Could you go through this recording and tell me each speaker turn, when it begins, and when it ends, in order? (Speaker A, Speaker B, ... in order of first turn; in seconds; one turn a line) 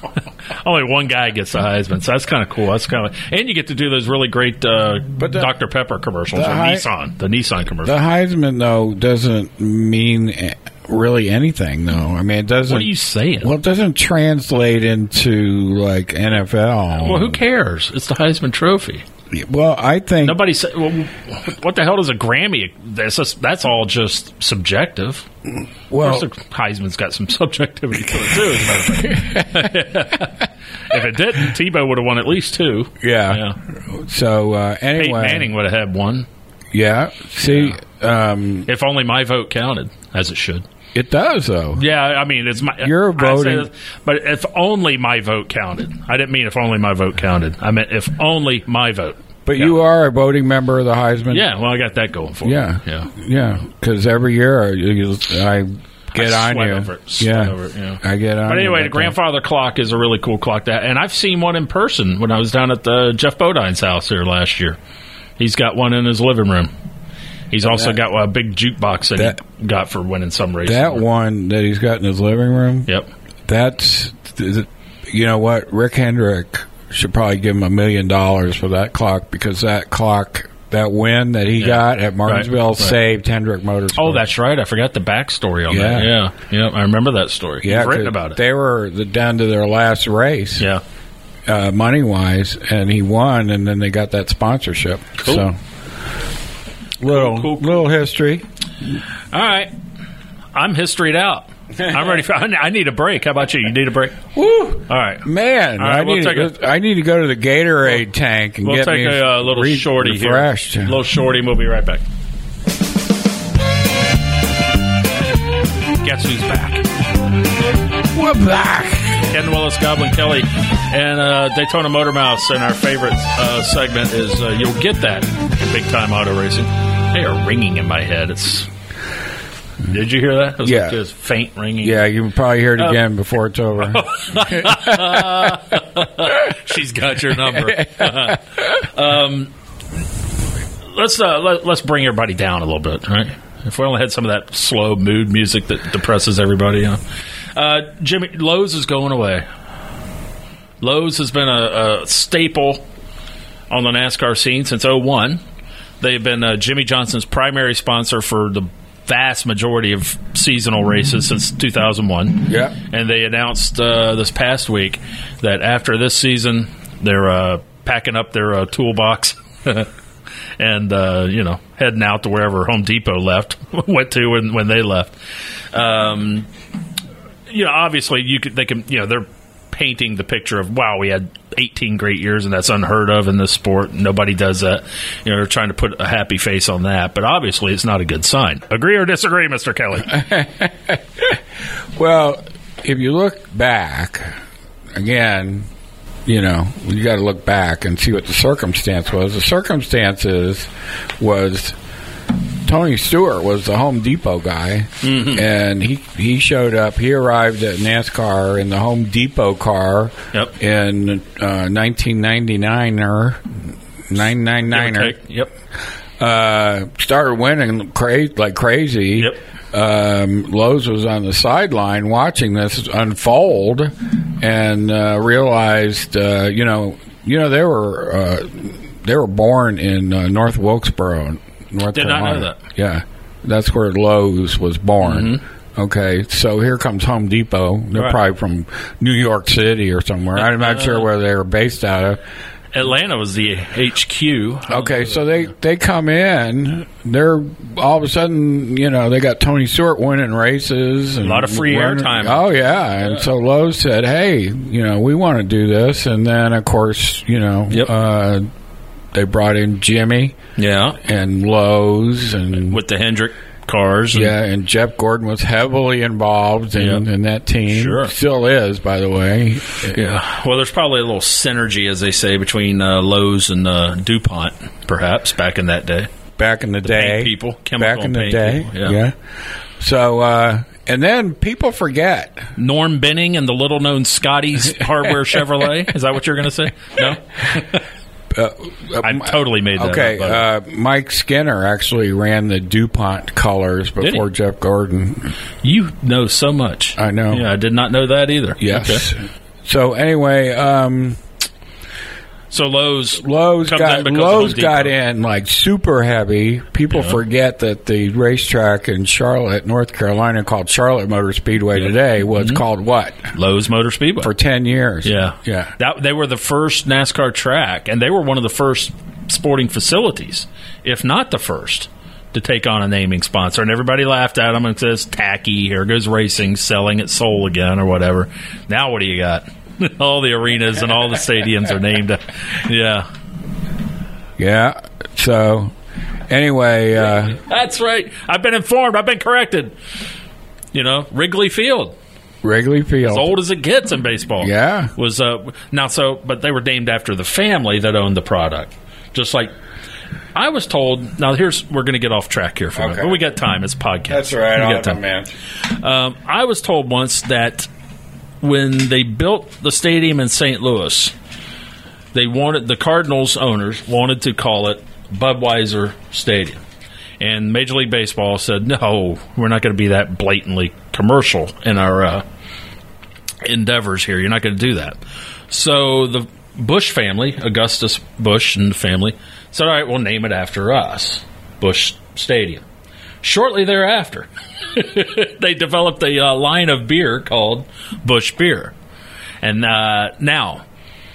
Speaker A: 0.5-8.0
Speaker B: 5.2-5.5
Speaker B: 6.3-6.9
Speaker B: 7.8-12.9
Speaker A: 12.7-13.5
Speaker B: 13.4-17.4
Speaker A: 17.0-19.0
Speaker B: 19.3-20.4
Speaker A: 20.2-25.3
Speaker B: 25.9-26.3
Speaker A: 26.0-33.6
Speaker B: 33.0-35.5
Speaker A: 34.9-36.3
Speaker B: 36.7-38.7
Speaker A: 37.5-37.8
Speaker A: 38.7-40.6
Speaker B: 40.9-41.8
Speaker A: 41.8-49.8
Speaker B: 42.8-43.7
Speaker B: 49.5-51.5
Speaker A: 51.3-53.1
Speaker B: 52.4-59.1
Speaker A: 56.1-64.8
Speaker A: 65.4-66.7
Speaker A: 67.5-71.0
Speaker B: 67.6-67.9
Speaker B: 70.6-72.9
Speaker B: 73.5-84.2
Speaker A: 81.6-82.9
Speaker A: 84.0-88.4
Speaker B: 85.7-86.1
Speaker B: 87.6-90.6
Speaker B: 91.5-95.5
Speaker A: 95.2-95.5
Speaker B: 97.0-98.4
Speaker A: 97.1-97.8
Speaker A: 99.3-99.7
Speaker A: 100.5-104.2
Speaker B: 104.3-111.0
Speaker A: 104.9-106.5
Speaker A: 108.6-112.0
Speaker A: 116.0-116.8
Speaker B: 118.1-119.2
Speaker A: 119.3-128.7
Speaker A: 129.8-132.0
Speaker B: 130.6-131.0
Speaker B: 131.8-135.3
Speaker A: 133.8-139.5
Speaker B: 137.5-138.4
Speaker A: 140.9-147.0
Speaker A: 147.5-149.4
Speaker A: 150.8-152.8
Speaker A: 153.7-155.4
Speaker A: 156.0-169.9
Speaker B: 162.5-162.7
Speaker A: 170.6-175.1
Speaker A: 175.7-176.5
Speaker A: 177.5-190.2
Speaker B: 190.1-191.4
Speaker B: 192.0-194.4
Speaker B: 194.9-195.7
Speaker B: 196.2-201.8
Speaker B: 202.6-213.4
Speaker A: 205.0-205.4
Speaker B: 214.1-215.2
Speaker A: 214.7-215.5
Speaker B: 216.2-242.2
Speaker A: 231.9-232.6
Speaker A: 235.0-235.4
Speaker A: 240.4-241.1
Speaker A: 242.7-245.3
Speaker B: 244.7-258.5
Speaker A: 251.2-253.2
Speaker B: 259.1-260.3
Speaker A: 260.6-261.0
Speaker B: 261.0-262.8
Speaker A: 262.6-264.3
Speaker B: 264.1-269.9
Speaker A: 266.8-267.0
Speaker A: 267.7-268.1
Speaker A: 269.9-276.1
Speaker B: 276.4-279.1
Speaker A: 276.8-279.0
Speaker B: 279.8-282.5
Speaker A: 282.6-287.8
Speaker B: 288.3-295.3
Speaker A: 289.0-290.4
Speaker A: 295.6-299.0
Speaker B: 297.0-297.4
Speaker B: 298.6-301.2
Speaker A: 302.5-304.9
Speaker B: 303.2-313.3
Speaker A: 312.4-312.6
Speaker A: 313.3-314.3
Speaker B: 314.2-315.7
Speaker A: 315.0-333.1
Speaker B: 334.4-335.7
Speaker B: 336.3-337.4
Speaker A: 337.3-339.8
Speaker A: 340.7-341.9
Speaker B: 342.4-343.4
Speaker A: 343.0-349.5
Speaker B: 344.4-344.9
Speaker A: 350.3-355.0
Speaker B: 352.8-353.2
Speaker B: 354.1-355.3
Speaker A: 355.7-357.7
Speaker A: 358.4-361.1
Speaker A: 362.1-366.6
Speaker A: 367.2-372.2
Speaker A: 373.4-375.0
Speaker A: 375.5-382.6
Speaker A: 383.2-388.7
Speaker A: 389.4-390.6